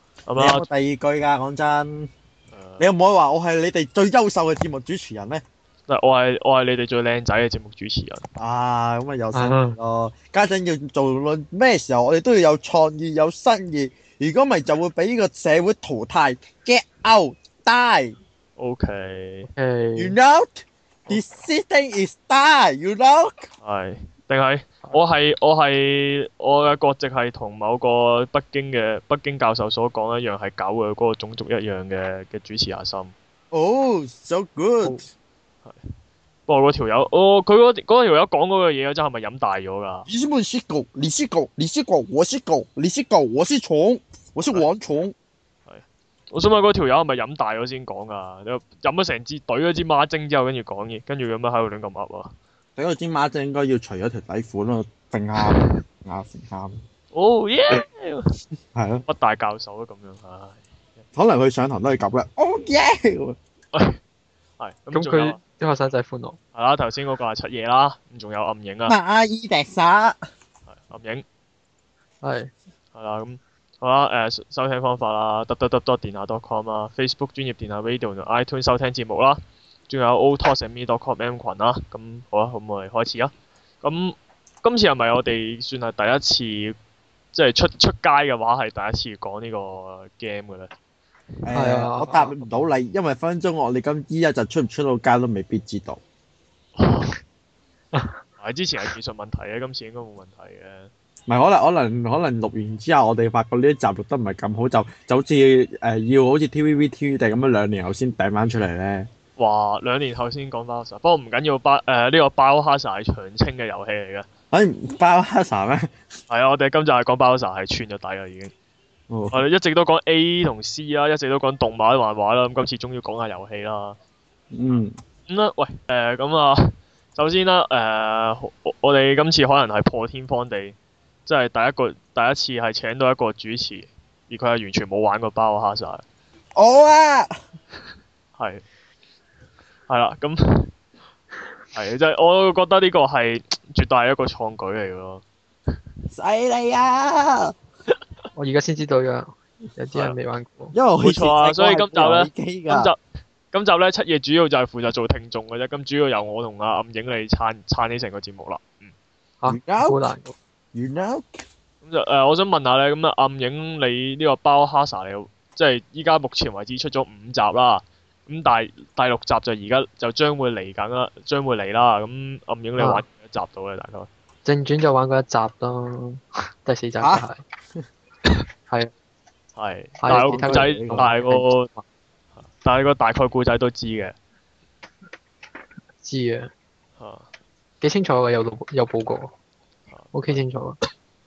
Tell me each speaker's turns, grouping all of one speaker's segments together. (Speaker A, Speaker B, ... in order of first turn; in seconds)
Speaker A: 0.2-0.7, 2.5-2.9, 5.9-8.2, 18.6-19.5, 23.6-33.1, 36.5-40.1, 45.7-52.3, 57.1-58.3, 59.1-60.6, 63.7-64.0, 64.6-65.4, 66.5-69.0, 70.7-71.2, 72.9-86.8, 87.3-90.7, 96.8-97.1, 98.4-100.9, 109.4-114.3, 116.3-118.5, 119.3-124.0, 125.3-136.0, 138.4-138.6, 139.9-140.7, 141.7-145.2, 151.0-153.0, 153.5-158.9, 161.8-174.1, 179.6-181.7, 182.6-184.1, 187.0-187.2, 189.9-190.4
Speaker B: 0.4-2.1, 2.8-5.4, 8.3-18.1, 19.9-23.5, 33.5-35.0, 40.1-45.1, 52.8-56.8, 58.7-59.0, 61.1-63.4, 68.9-70.2, 91.4-96.0, 101.3-109.1, 114.5-115.9, 119.1-119.4, 124.5-125.0, 136.6-137.3, 146.1-147.5, 150.7-152.9, 159.5-159.9, 160.7-161.4, 180.2-181.1
Speaker C: 9.3-9.8, 19.5-20.1, 64.9-66.4, 72.2-72.5, 91.5-92.5, 148.3-150.7, 159.4-160.3, 172.8-173.0, 174.4-177.4, 180.0-181.8, 186.0-186.5, 187.8-189.3, 190.1-190.8